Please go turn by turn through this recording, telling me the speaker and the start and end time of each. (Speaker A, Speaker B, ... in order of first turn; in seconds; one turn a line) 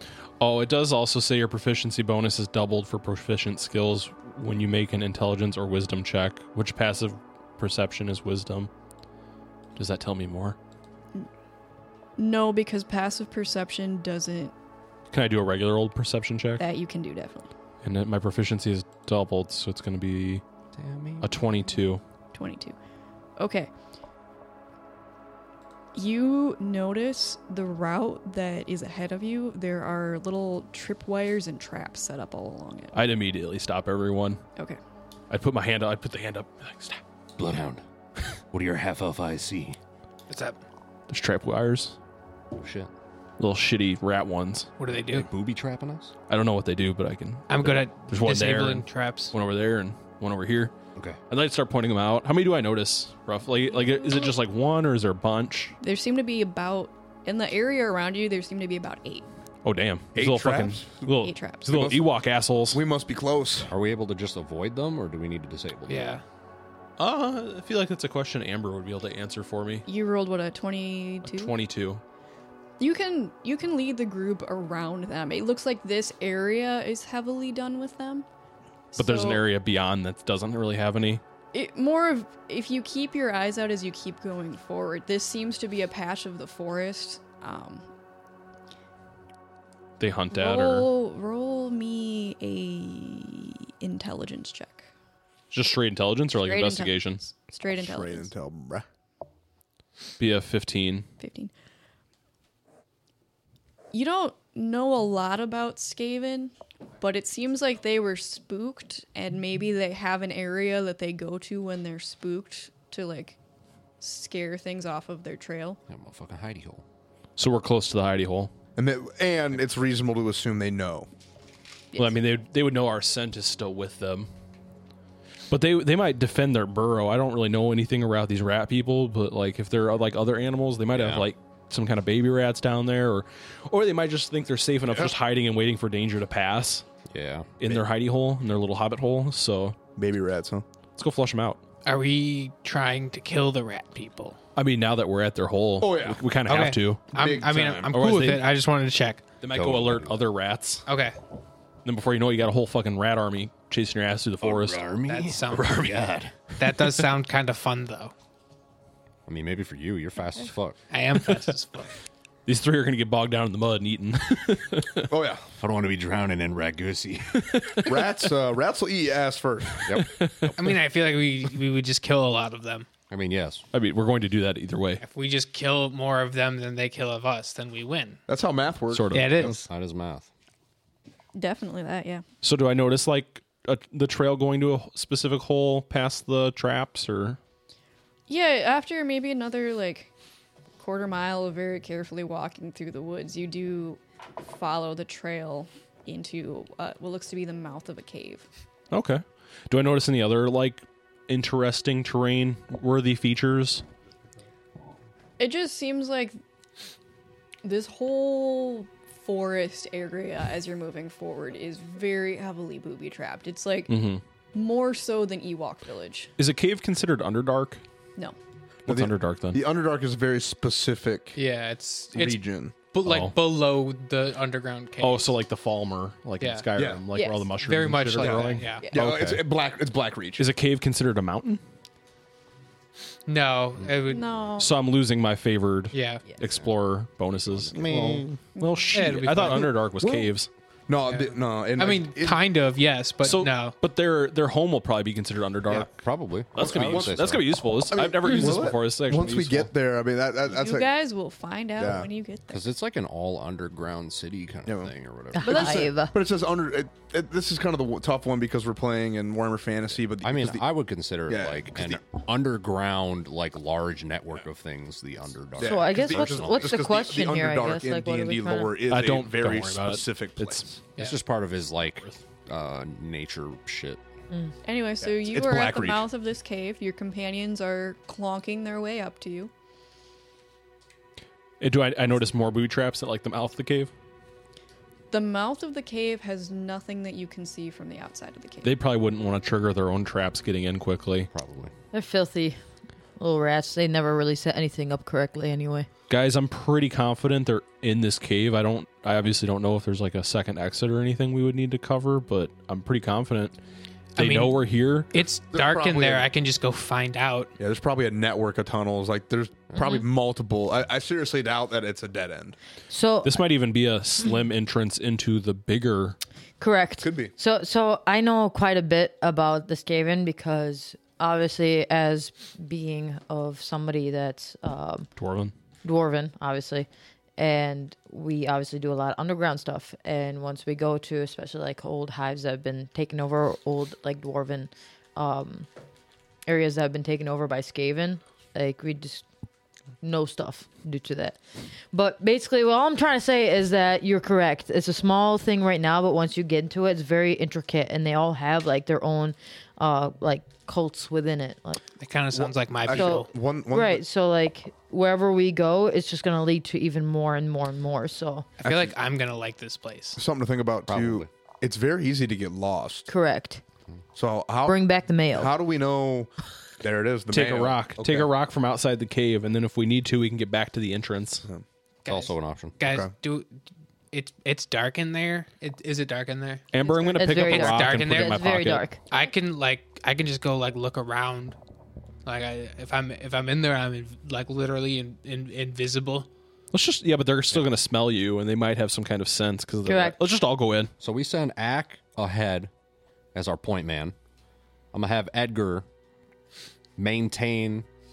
Speaker A: 0.4-8.7
Speaker A: 9.8-10.6
Speaker B: 12.2-14.5
Speaker A: 15.1-16.6
Speaker B: 16.6-17.5
Speaker A: 17.8-20.4
Speaker C: 20.7-21.3
Speaker A: 21.2-22.0
Speaker B: 22.3-22.8
Speaker B: 23.4-23.7
Speaker B: 25.9-33.0
Speaker A: 32.9-34.4
Speaker A: 35.3-37.0
Speaker C: 37.4-37.8
Speaker C: 38.5-39.8
Speaker D: 40.3-40.6
Speaker A: 41.1-42.0
Speaker C: 42.6-42.9
Speaker A: 43.4-44.7
Speaker D: 44.8-45.3
Speaker C: 45.0-46.1
Speaker A: 46.3-50.7
Speaker D: 47.5-49.3
Speaker A: 51.3-55.8
Speaker B: 53.7-54.3
Speaker B: 55.8-59.3
Speaker A: 59.6-62.8
Speaker E: 60.1-61.0
Speaker B: 61.2-61.8
Speaker E: 61.7-62.1
Speaker E: 62.7-63.7
Speaker C: 63.7-66.2
Speaker D: 65.9-66.2
Speaker A: 67.0-69.9
Speaker B: 69.9-71.5
Speaker A: 71.2-72.0
Speaker B: 72.8-78.3
Speaker B: 78.9-79.5
Speaker A: 79.0-81.2
Speaker B: 81.5-87.8
Speaker A: 90.0-90.9
Speaker B: 90.3-94.9
Speaker A: 95.5-97.2
Speaker B: 96.3-98.3
Speaker E: 97.7-98.8
Speaker A: 100.2-101.0
Speaker B: 101.2-101.5
Speaker B: 103.9-113.4
Speaker B: 114.0-115.8
Speaker C: 115.9-116.8
Speaker A: 117.4-118.5
Speaker E: 118.8-121.1
Speaker A: 122.0-124.3
Speaker A: 125.5-136.8
Speaker C: 130.9-131.3
Speaker C: 137.1-137.8
Speaker A: 137.6-139.8
Speaker E: 139.9-140.6
Speaker A: 141.0-141.6
Speaker D: 141.8-144.4
Speaker A: 144.6-147.2
Speaker E: 145.8-146.3
Speaker D: 146.4-149.3
Speaker E: 147.1-147.9
Speaker A: 147.9-148.5
Speaker A: 149.4-150.8
Speaker C: 149.5-150.2
Speaker D: 150.9-151.2
Speaker A: 151.8-154.9
Speaker C: 154.4-156.5
Speaker D: 155.1-158.1
Speaker C: 159.3-160.8
Speaker D: 160.9-161.9
Speaker A: 162.4-165.1
Speaker E: 165.1-165.4
Speaker C: 165.6-167.4
Speaker A: 167.3-168.0
Speaker E: 167.8-170.0
Speaker C: 169.8-170.6
Speaker A: 170.0-170.5
Speaker D: 170.6-172.9
Speaker C: 173.1-173.6
Speaker A: 173.7-175.0
Speaker D: 175.0-178.2
Speaker E: 178.3-179.6
Speaker A: 178.9-179.5
Speaker D: 179.1-179.7
Speaker C: 179.4-180.3
Speaker B: 181.3-182.2
Speaker A: 182.4-187.4
Speaker B: 188.3-190.1
Speaker B: 190.8-198.5
Speaker A: 198.9-203.8
Speaker B: 205.4-206.4
Speaker B: 207.6-214.0
Speaker A: 213.9-214.2
Speaker B: 214.5-216.3
Speaker A: 216.4-217.8
Speaker A: 218.9-219.6
Speaker E: 218.9-221.4
Speaker D: 221.3-225.3
Speaker E: 222.1-222.7
Speaker A: 223.0-223.4
Speaker A: 225.0-229.3
Speaker D: 226.4-226.7
Speaker E: 226.8-227.0
Speaker B: 227.1-227.5
Speaker D: 227.6-228.9
Speaker E: 228.2-230.5
Speaker C: 228.9-229.3
Speaker A: 230.4-231.6
Speaker D: 233.3-234.3
Speaker B: 234.1-234.8
Speaker A: 234.6-240.5
Speaker D: 235.9-236.3
Speaker C: 237.4-238.3
Speaker B: 238.6-238.9
Speaker D: 238.9-239.9
Speaker E: 240.0-240.3
Speaker E: 240.9-242.4
Speaker D: 241.1-243.8
Speaker A: 243.2-246.0
Speaker C: 245.9-247.5
Speaker A: 246.5-249.7
Speaker E: 246.6-250.9
Speaker B: 250.5-252.6
Speaker E: 251.8-252.1
Speaker C: 252.5-255.5
Speaker E: 254.7-260.6
Speaker F: 255.3-256.1
Speaker B: 255.4-255.8
Speaker C: 260.2-266.7
Speaker E: 261.3-262.0
Speaker E: 265.6-270.7
Speaker F: 265.6-268.8
Speaker A: 268.9-270.7
Speaker C: 271.0-274.0
Speaker B: 274.6-279.5
Speaker E: 275.0-276.1
Speaker A: 281.6-283.9
Speaker B: 285.1-288.8
Speaker A: 288.6-291.3
Speaker C: 291.3-291.7
Speaker F: 291.9-292.6
Speaker F: 293.2-295.9
Speaker A: 296.1-303.6
Speaker D: 304.1-307.5
Speaker A: 304.2-305.1
Speaker E: 305.5-306.3
Speaker E: 307.6-312.6
Speaker F: 312.9-313.4
Speaker A: 313.2-316.1
Speaker F: 316.6-325.1
Speaker E: 317.0-317.3
Speaker A: 325.2-325.5
Speaker F: 325.8-335.7
Speaker F: 336.4-339.3
Speaker F: 340.0-341.4
Speaker F: 341.9-351.8
Speaker D: 352.0-353.3
Speaker E: 352.4-354.0
Speaker F: 352.9-358.4
Speaker D: 358.6-360.2
Speaker E: 358.6-358.9
Speaker E: 360.2-363.1
Speaker C: 360.9-361.3
Speaker F: 363.1-363.6
Speaker E: 364.1-368.3
Speaker F: 364.6-365.6
Speaker A: 367.3-371.4
Speaker D: 372.1-373.5
Speaker C: 372.1-372.8
Speaker E: 372.8-373.1
Speaker D: 374.1-376.7
Speaker A: 376.7-379.0
Speaker F: 376.9-379.0
Speaker D: 377.4-381.6
Speaker D: 382.3-386.3
Speaker A: 386.7-390.9
Speaker F: 389.8-390.2
Speaker C: 391.0-392.7
Speaker C: 393.3-394.1
Speaker C: 394.9-395.8
Speaker C: 397.0-397.9